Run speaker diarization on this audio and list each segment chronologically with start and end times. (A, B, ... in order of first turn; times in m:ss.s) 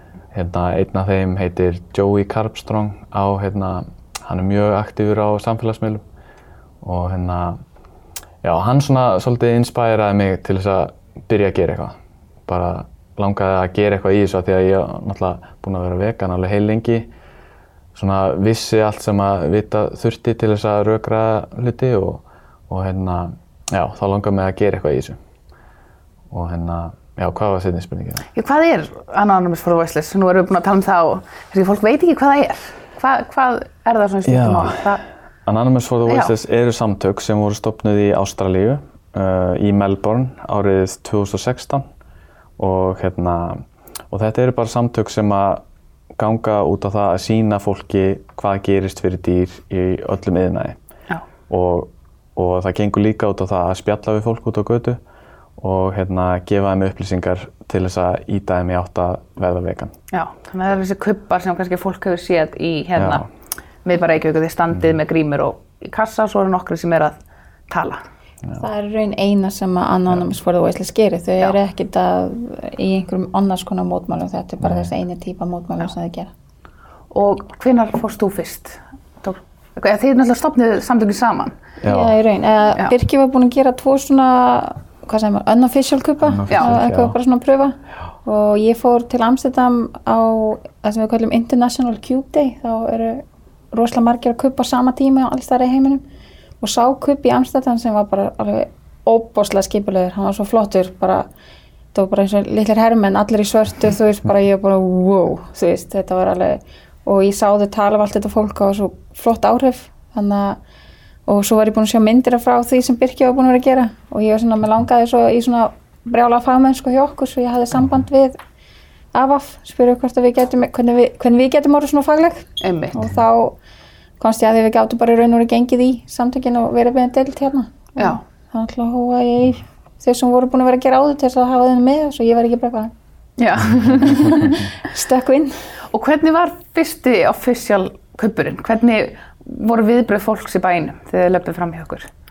0:00.3-0:06.0 A
0:06.8-0:07.6 A
0:08.4-0:17.1 A
0:17.9-0:25.2 A
0:26.3-0:28.3 A
0:28.3-0:35.0 B
0:34.2-0:41.8 A
0:36.1-0:36.3 B
0:42.6-0:45.6 A
0:46.2-0:50.8 A
0:51.5-0:55.0 A
0:55.6-0:59.9 A
1:00.1-1:03.3 B
1:03.0-1:03.2 A
1:03.8-1:07.1 B
1:04.7-1:05.0 A
1:07.7-1:08.0 B
1:08.6-1:16.3 C
1:14.6-1:14.9 A
1:17.1-1:21.5 B
1:21.8-1:22.2 A
1:21.8-1:36.0 C
1:26.2-1:27.2 A
1:36.6-1:41.3 C
1:41.9-1:50.6 C
1:51.3-1:58.4 C
1:59.1-2:03.6 C
2:02.6-2:02.9 B
2:04.2-2:12.9 C
2:13.4-2:14.4 B
2:13.8-2:14.5 A
2:13.9-2:15.6 C
2:15.9-2:22.1 B